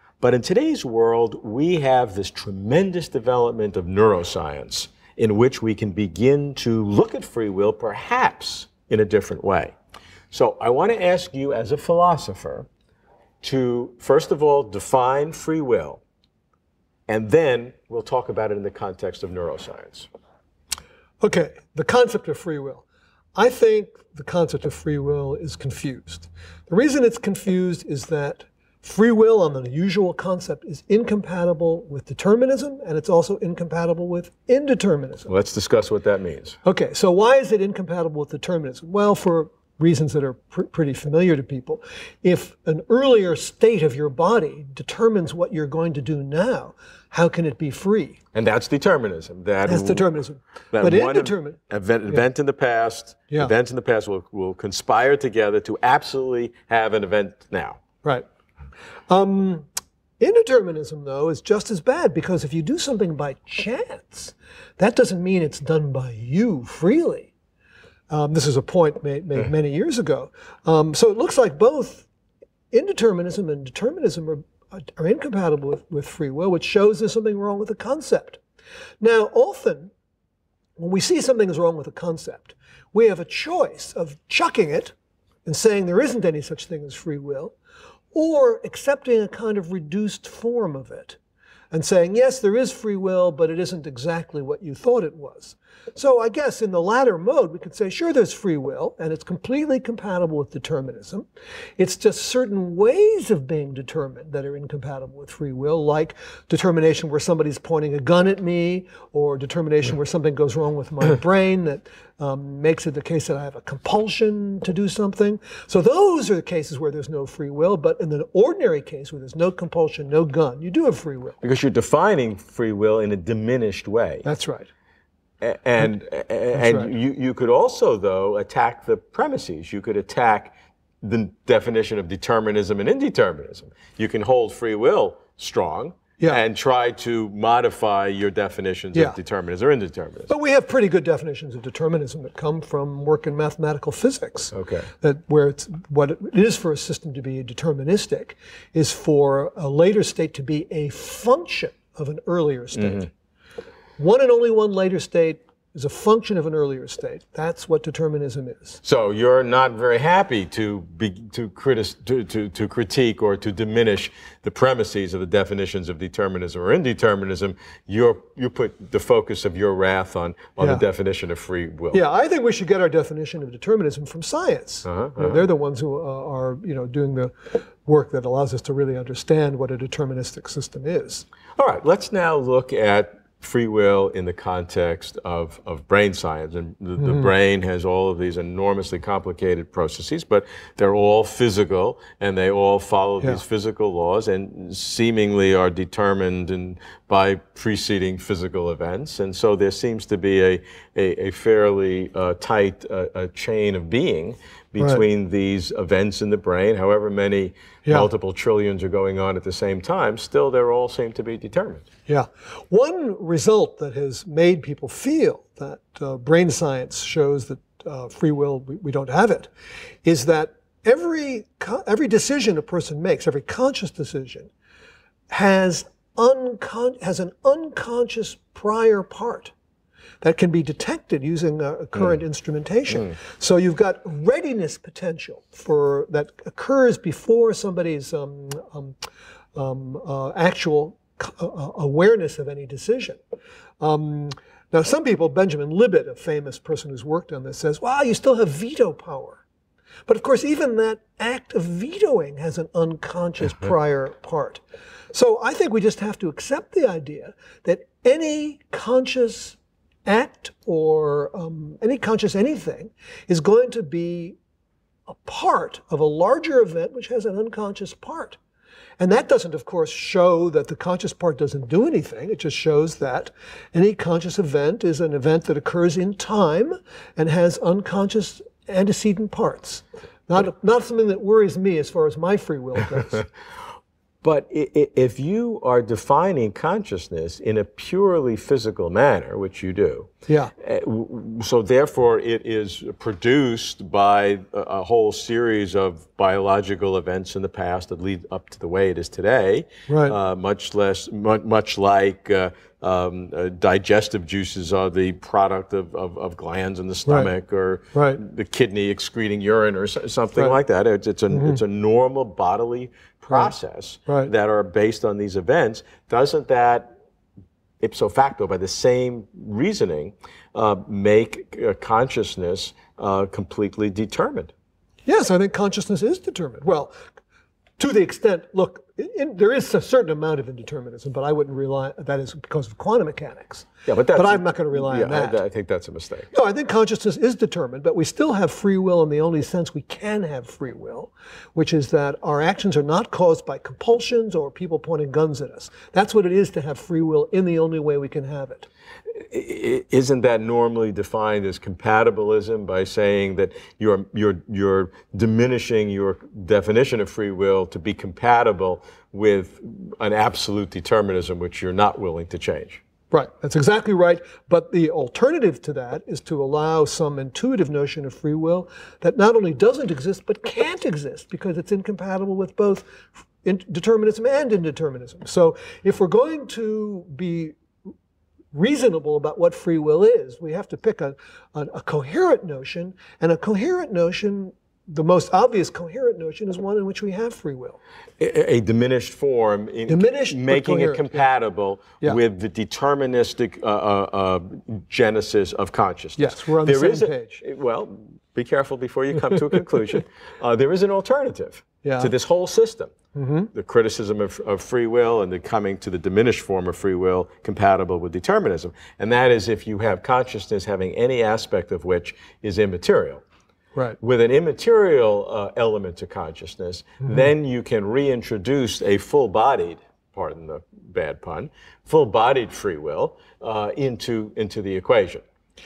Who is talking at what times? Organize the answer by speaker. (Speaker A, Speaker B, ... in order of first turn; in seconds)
Speaker A: 0.2-9.8, 10.3-12.7, 13.4-16.0, 17.1-20.1, 35.3-36.6, 48.3-50.1, 50.7-57.8, 121.4-124.3, 125.4-140.3, 144.5-144.9, 152.8-153.1, 158.8-172.0, 174.8-175.4, 181.6-211.9, 284.2-316.9, 317.8-324.5, 333.9-336.3, 349.3-362.8, 388.2-402.9, 403.5-413.2, 414.0-425.2
Speaker B: 21.2-22.8, 23.4-35.3, 36.6-48.2, 49.6-51.6, 59.1-59.7, 60.2-67.3, 68.1-72.1, 72.7-78.4, 79.0-79.9, 80.8-84.9, 85.5-87.5, 88.1-91.2, 91.7-101.3, 101.8-121.4, 124.2-124.7, 126.5-126.9, 140.3-153.1, 154.0-158.8, 170.6-170.8, 171.9-181.2, 187.0-187.3, 212.1-219.5, 220.0-224.5, 225.3-229.5, 230.2-239.0, 239.6-243.2, 243.8-249.4, 250.1-264.4, 265.1-268.4, 269.0-283.2, 290.3-290.5, 299.9-300.2, 307.1-307.3, 307.9-308.2, 311.3-311.6, 325.1-326.9, 327.8-335.4, 336.3-348.7, 363.1-377.6, 378.5-387.8, 389.9-391.3, 396.2-397.4, 401.8-402.1, 403.1-403.5